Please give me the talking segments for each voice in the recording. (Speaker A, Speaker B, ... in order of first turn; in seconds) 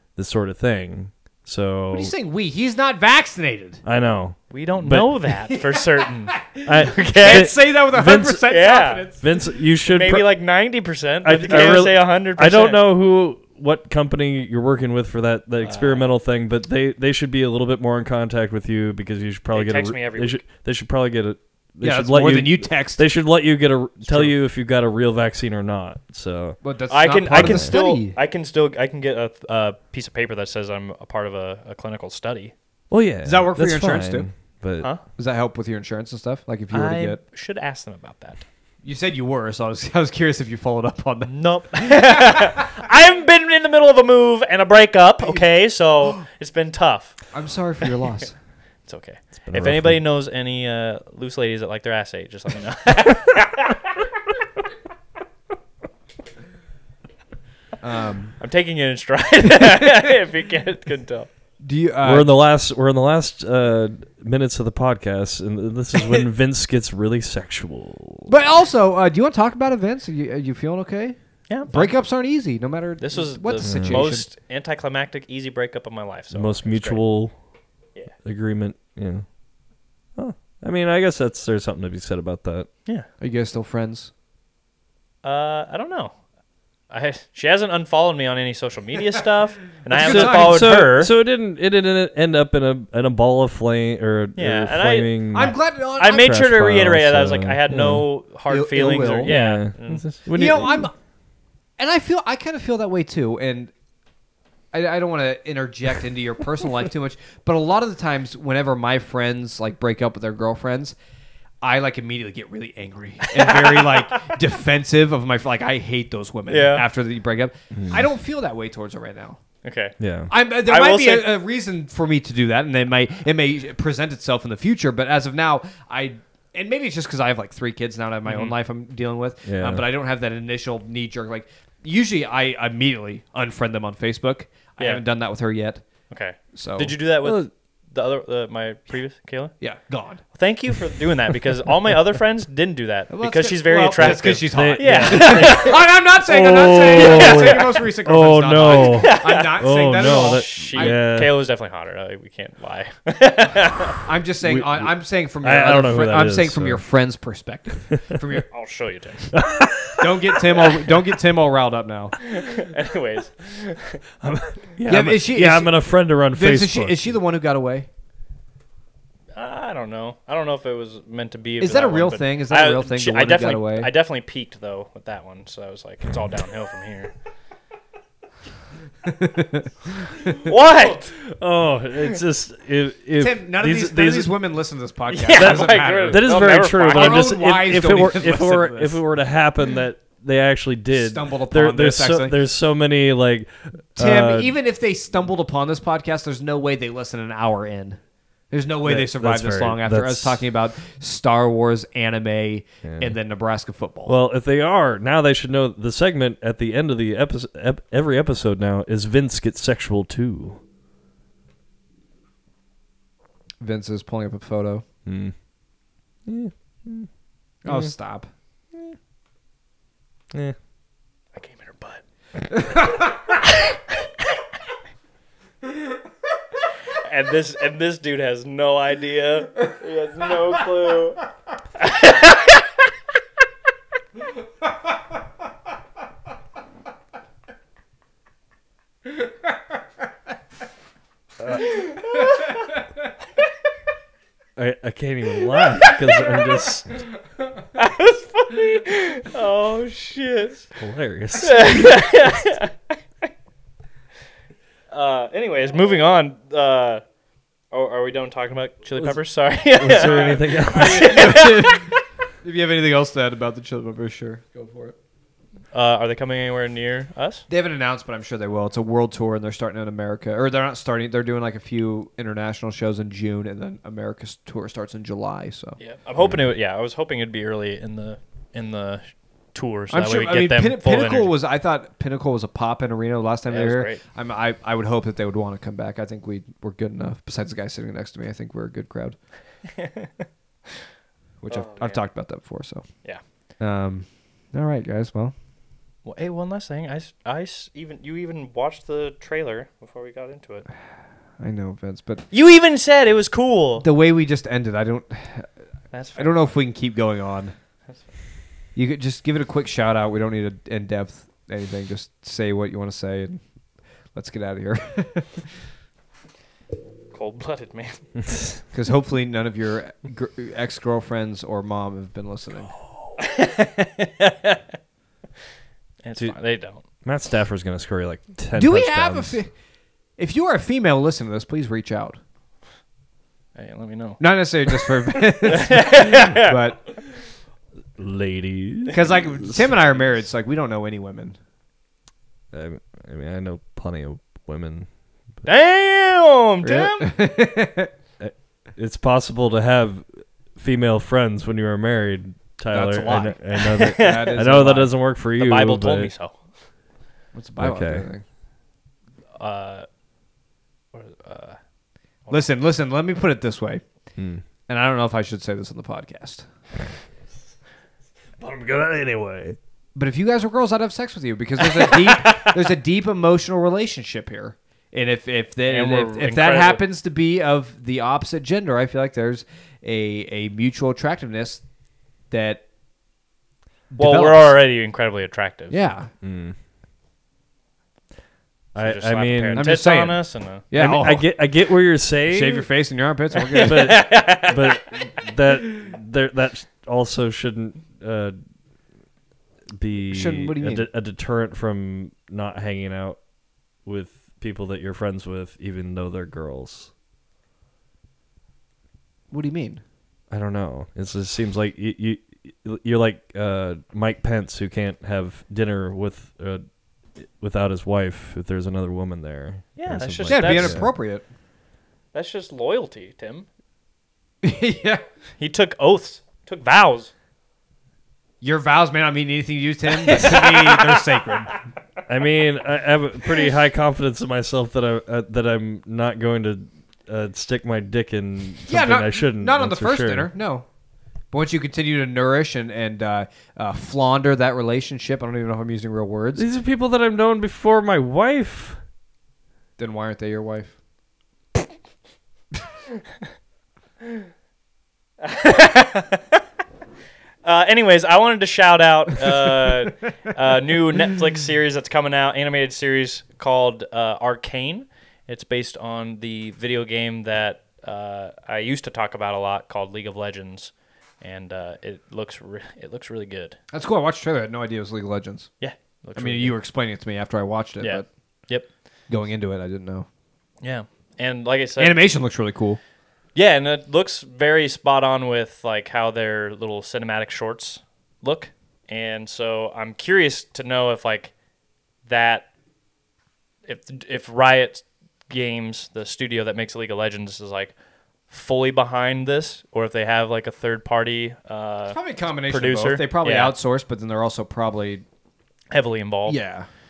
Speaker A: 0.1-2.1, 3.8-5.2, 6.6-8.4, 9.2-10.3, 11.2-26.6, 27.3-27.7, 32.9-34.9, 49.5-50.0, 62.0-68.3, 73.6-74.1, 76.3-77.3, 78.2-79.3, 80.2-82.7, 90.0-98.1, 99.2-100.9, 117.7-118.0, 120.0-120.3, 129.4-129.9, 137.2-137.5, 144.0-151.3, 154.4-156.8, 159.3-160.3, 164.2-167.2, 181.3-184.3, 185.3-194.5, 198.8-200.4, 202.8-203.2, 204.1-210.6, 215.1-215.3, 216.3-217.1, 217.7-217.9, 244.6-246.9, 250.8-252.1, 259.7-261.4, 276.2-276.4, 327.0-329.4, 338.0-339.7, 342.5-344.9, 348.2-356.1, 357.6-358.1, 364.2-364.4, 368.4-369.6, 386.2-386.6, 388.7-389.7, 390.7-392.7, 393.6-398.4, 399.7-403.2, 403.8-406.9, 410.3-416.6, 417.2-420.9, 432.1-440.3, 446.4-448.8
Speaker B: 1.9-3.8, 5.5-9.2, 21.8-23.1, 24.1-24.3, 26.6-28.2, 33.2-34.3, 35.1-37.2, 38.8-42.7, 47.3-48.3, 57.8-58.4, 61.6-62.3, 68.3-71.2, 71.7-74.3, 83.2-84.1, 89.9-90.7, 95.3-96.2, 98.5-99.4, 100.3-100.9, 101.8-103.7, 104.7-111.0, 111.6-119.4, 120.3-135.8, 136.6-136.9, 139.6-140.2, 143.1-151.0, 154.0-158.4, 160.0-162.2, 164.9-165.7, 166.3-167.9, 171.6-173.9, 179.1-180.3, 183.2-189.1, 190.9-192.4, 194.0-198.0, 198.5-204.2, 213.6-214.8, 217.6-218.3, 260.1-264.9, 267.5-275.8, 279.9-289.1, 291.4-292.8, 293.6-295.3, 301.4-302.2, 303.8-305.5, 306.1-307.6, 308.7-313.4, 314.1-315.5, 318.7-322.7, 328.6-329.5, 330.2-332.2, 334.2-336.9, 338.9-341.4, 346.6-347.9, 352.7-353.4, 353.9-354.9, 357.3-358.2, 362.3-363.8, 364.7-366.4, 369.9-381.6, 382.3-382.6, 383.9-384.6, 385.7-386.1, 389.6-391.4, 392.3-394.0, 400.1-400.9, 409.3-409.8, 420.3-421.2, 424.4-425.0, 428.4-431.6, 438.7-440.6, 441.3-446.4, 449.8-450.7, 459.3-459.9, 473.7-475.5, 476.1-478.1, 479.1-480.1, 481.8-482.8, 501.9-505.0, 506.3-506.6
Speaker C: 4.5-7.5, 8.5-9.1, 9.9-12.8, 15.6-16.1, 19.5-20.4, 26.9-32.5, 36.7-38.4, 41.3-47.2, 48.9-53.9, 58.4-61.3, 71.5-71.9, 73.0-77.0, 85.2-86.1, 86.9-91.1, 94.4-100.1, 113.3-114.3, 116.5-116.9, 119.6-120.0, 120.5-121.4, 128.2-128.6, 136.1-139.5, 140.3-145.8, 146.9-147.7, 148.7-154.0, 158.5-159.3, 162.2-164.0, 169.4-177.1, 180.4-181.1, 185.1-187.3, 221.3-222.0, 223.5-223.8, 227.0-231.2, 231.8-232.6, 241.6-242.6, 245.8-246.5, 247.8-250.7, 251.4-252.9, 254.9-257.0, 257.7-262.0, 265.7-267.4, 275.8-281.3, 283.5-284.0, 289.8-290.1, 291.5-292.0, 296.0-300.6, 302.3-303.9, 305.9-306.5, 317.1-318.0, 323.1-324.6, 326.0-326.8, 333.6-336.6, 345.4-347.1, 353.5-354.4, 355.4-356.4, 359.4-359.9, 360.9-361.6, 375.6-376.8, 384.0-385.8, 388.7-390.6, 393.3-394.8, 419.8-420.9, 422.1-423.5, 425.4-427.1, 429.9-431.1, 455.2-456.4, 457.4-473.6, 475.6-476.5, 477.8-478.7, 480.6-482.1, 483.3-491.3, 492.1-492.5, 493.6-497.7, 498.3-503.6, 505.7-506.4